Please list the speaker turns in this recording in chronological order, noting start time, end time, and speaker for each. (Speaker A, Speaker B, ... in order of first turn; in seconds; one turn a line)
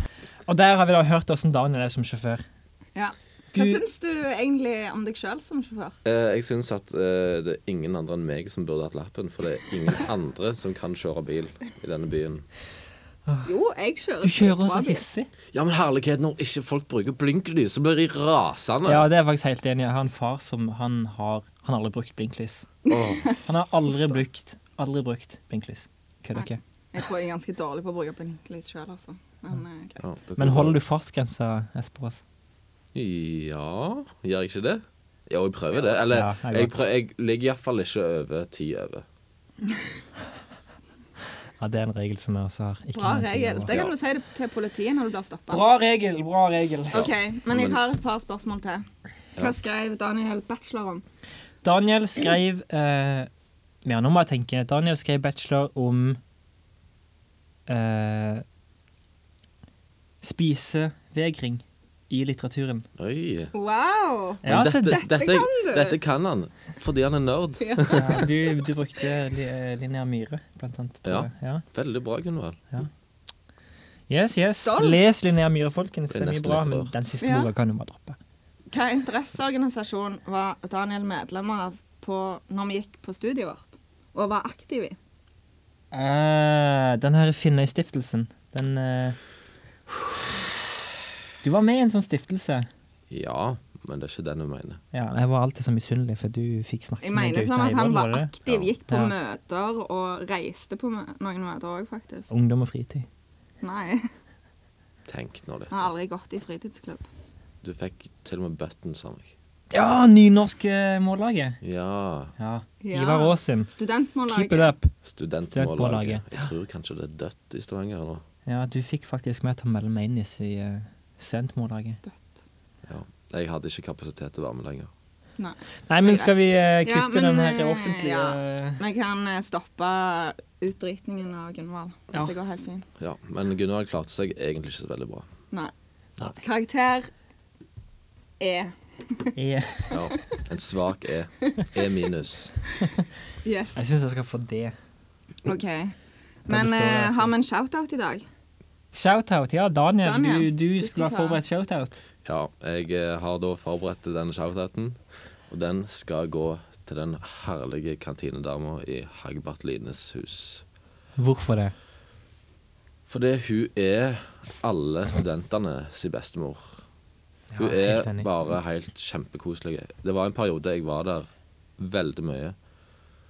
Speaker A: 0.5-2.4
Speaker B: 2.9-6.0
Speaker A: 3.5-3.8
Speaker C: 6.0-12.4
Speaker B: 13.4-15.0
Speaker A: 14.2-15.3
Speaker C: 15.5-19.1
Speaker A: 18.9-22.7
Speaker B: 22.9-23.4
Speaker C: 22.9-23.3
Speaker A: 23.4-26.6
Speaker B: 26.4-30.0
Speaker C: 30.0-30.8
Speaker A: 30.4-32.2
Speaker C: 32.9-39.0
Speaker A: 36.1-36.8
Speaker A: 41.6-43.7
Speaker B: 42.9-45.6
Speaker C: 43.7-43.9
Speaker A: 45.5-47.1
Speaker B: 46.9-48.8
Speaker C: 46.9-47.8
Speaker B: 49.4-51.0
Speaker A: 51.6-53.3
Speaker A: 53.8-56.2
Speaker A: 57.7-58.4
Speaker A: 60.2-62.9
Speaker C: 63.0-63.5
Speaker B: 63.5-66.0
Speaker A: 64.4-65.0
Speaker C: 64.4-68.3
Speaker B: 67.6-68.5
Speaker A: 67.9-71.6
Speaker C: 71.0-72.6
Speaker A: 74.1-78.2
Speaker B: 74.6-75.0
Speaker C: 76.1-76.9
Speaker B: 77.2-77.5
Speaker B: 78.7-85.0
Speaker A: 85.9-89.2
Speaker A: 91.4-92.7
Speaker C: 93.1-94.8
Speaker A: 94.9-98.3
Speaker B: 97.0-102.3
Speaker A: 98.9-99.1
Speaker A: 102.3-103.1
Speaker B: 103.6-104.1
Speaker C: 105.1-105.9
Speaker B: 105.7-107.1
Speaker C: 107.6-109.3
Speaker A: 109.7-111.6
Speaker C: 111.6-112.3
Speaker A: 112.4-113.7
Speaker B: 112.8-114.7
Speaker A: 114.3-114.9
Speaker C: 115.0-118.2
Speaker A: 115.5-116.5
Speaker A: 118.5-122.0
Speaker C: 122.9-124.9
Speaker B: 125.4-132.8
Speaker A: 125.9-128.8
Speaker C: 133.0-135.3
Speaker B: 136.2-137.1
Speaker B: 138.4-139.3
Speaker A: 139.3-140.0
Speaker C: 139.9-142.6
Speaker B: 143.4-143.8
Speaker A: 143.7-144.8
Speaker B: 145.4-145.9
Speaker B: 146.4-148.2
Speaker A: 146.5-147.3
Speaker A: 148.9-152.0
Speaker B: 150.0-151.4
Speaker C: 152.2-160.6
Speaker A: 161.2-161.7
Speaker C: 163.1-166.8
Speaker A: 167.5-168.3
Speaker C: 167.6-172.6